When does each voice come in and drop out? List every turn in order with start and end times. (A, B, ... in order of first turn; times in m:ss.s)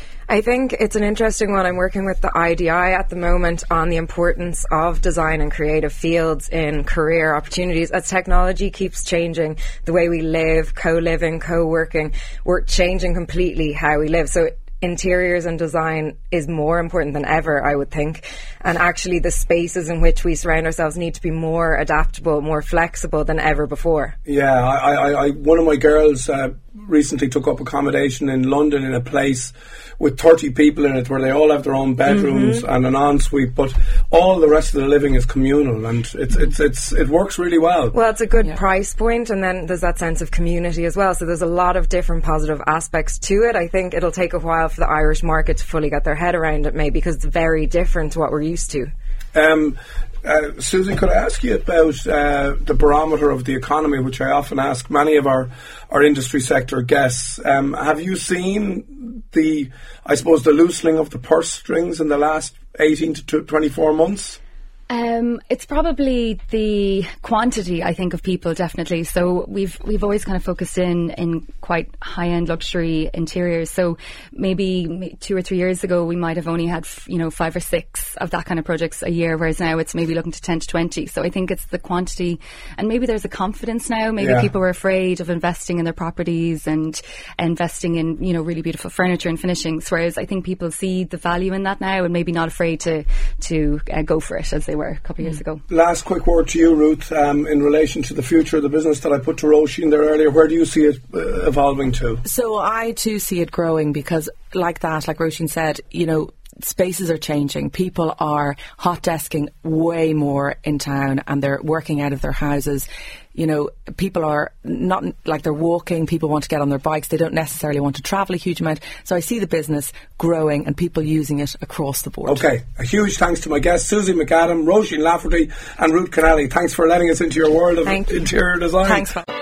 0:00.3-0:24.1 A
0:24.2-0:37.9 B
0:32.1-0:32.6 A
0:37.9-0:48.9 A
0:49.3-1:04.4 B
1:04.9-1:35.6 C
1:24.2-1:24.5 B
1:35.7-1:42.2 B
1:42.2-2:02.4 D
2:02.2-2:09.1 B
2:07.8-2:08.2 A
2:08.8-2:09.2 D